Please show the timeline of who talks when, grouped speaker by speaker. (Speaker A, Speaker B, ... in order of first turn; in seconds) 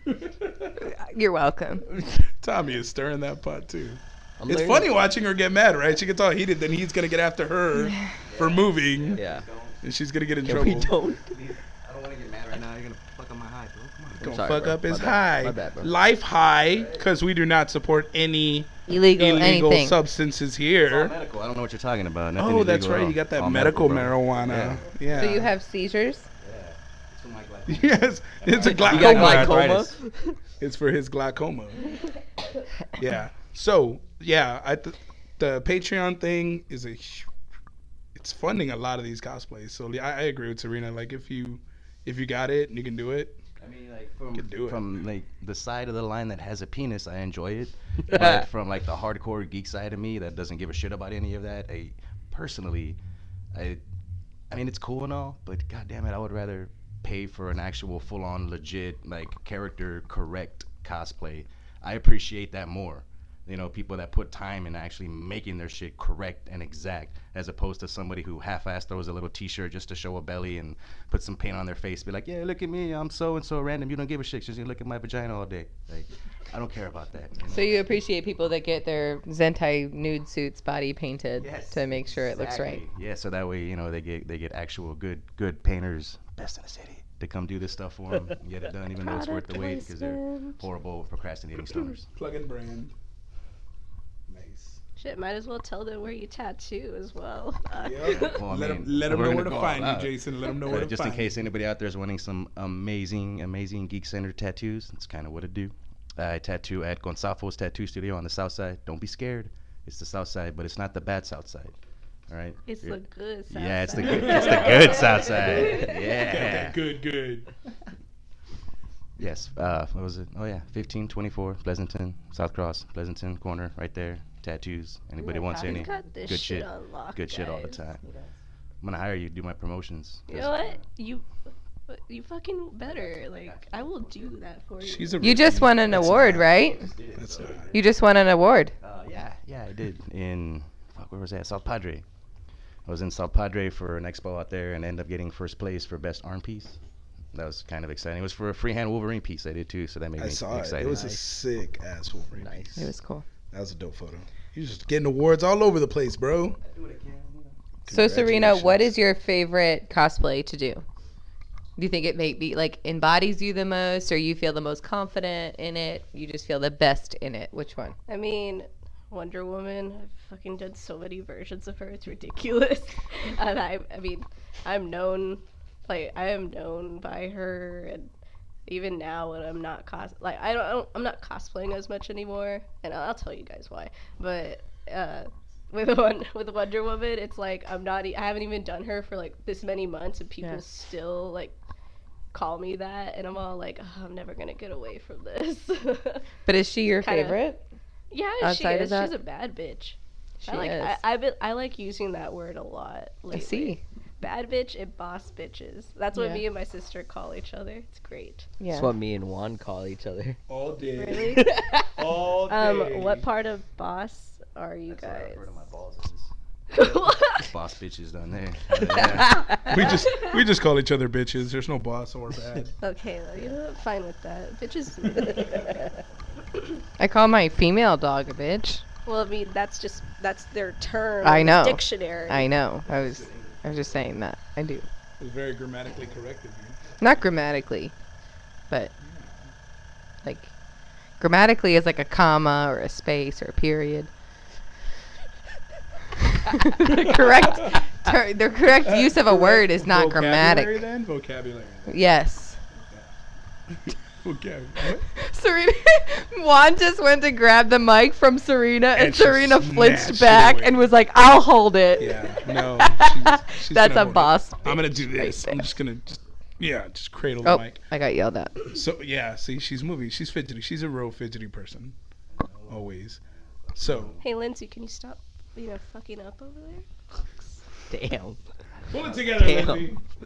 Speaker A: 0.1-0.7, 2.3-9.2, 9.8-11.0, 14.2-21.2, 22.4-25.5, 27.7-29.9, 30.6-31.9, 33.0-37.3, 38.1-43.4, 44.3-44.9, 92.2-92.9, 94.3-94.8, 97.8-101.4, 114.0-117.5, 134.8-136.5, 137.2-137.7, 150.2-152.9, 153.5-156.6, 157.9-158.9, 210.5-213.3, 219.6-222.7, 235.2-236.8, 239.0-239.5, 246.8-247.8, 248.8-252.0, 253.7-255.1, 258.9-260.9, 262.0-267.8, 268.7-272.0, 272.7-273.2, 273.8-274.2, 278.9-280.0
Speaker B: 0.8-1.9, 18.9-20.0, 25.1-26.3, 77.5-82.8, 135.2-136.9, 137.7-138.7, 152.8-153.2, 157.9-160.8, 161.8-168.0, 196.5-197.6, 198.4-199.1, 200.4-201.0, 203.3-203.8, 206.1-206.4, 208.6-208.9, 227.0-228.8, 231.2-234.9, 237.0-237.9, 240.2-240.5, 241.2-244.1, 246.3-250.8, 251.9-252.6, 255.1-265.7, 267.4-268.7
Speaker C: 4.4-5.0, 9.1-9.5, 10.4-11.3, 14.2-15.9, 28.6-30.4, 48.1-48.5, 150.9-151.2, 152.4-152.9, 208.7-210.4, 211.4-211.8, 219.0-219.6, 277.9-278.4, 279.4-279.9
Speaker D: 8.3-9.8, 11.2-14.4, 16.7-17.1, 20.8-25.4, 26.4-30.0, 43.6-53.0, 53.5-53.8, 54.5-78.0, 81.4-92.1, 98.2-111.8, 112.3-116.8, 119.2-128.0, 128.8-130.8, 132.9-134.4, 135.9-137.9, 138.8-142.1, 142.9-146.8, 147.3-151.0, 156.6-157.8, 214.9-216.3, 217.3-219.9, 232.4-234.0, 272.3-274.3, 278.7-279.6
Speaker E: 89.0-90.6, 95.0-98.4, 112.7-116.3, 125.2-127.8, 130.3-131.3, 131.9-135.3, 168.1-178.1, 178.7-191.6, 192.3-196.3, 197.0-197.4, 198.1-208.5, 210.8-211.9, 212.5-215.6, 216.7-217.5, 219.1-220.4, 222.8-225.9, 229.1-232.5, 274.2-277.6